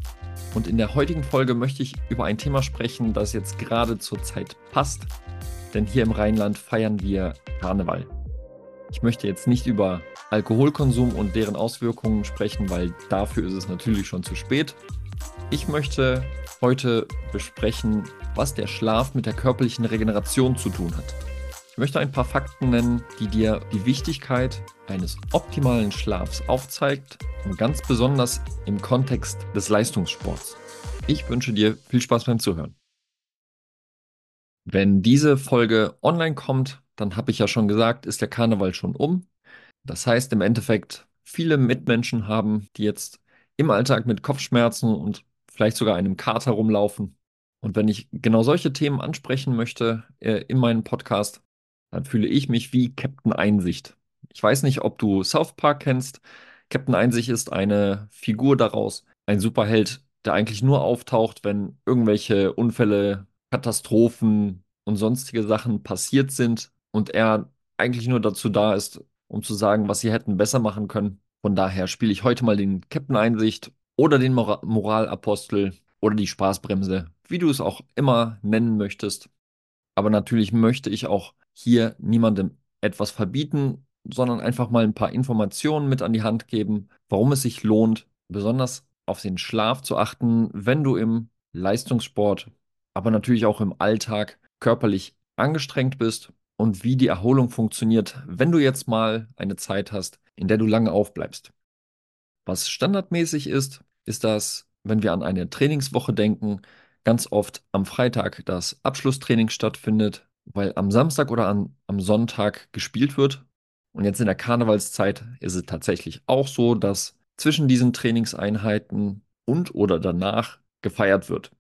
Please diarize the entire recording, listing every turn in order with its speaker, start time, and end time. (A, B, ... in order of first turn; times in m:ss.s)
0:00.5-0:05.1 A
0:05.7-0:08.1 A
0:08.9-0:14.8 A
0:15.5-0:21.2 A
0:21.7-0:32.8 A
0:34.7-0:39.3 A
0:39.8-1:19.3 A
1:20.0-1:41.5 A
1:42.4-2:01.5 A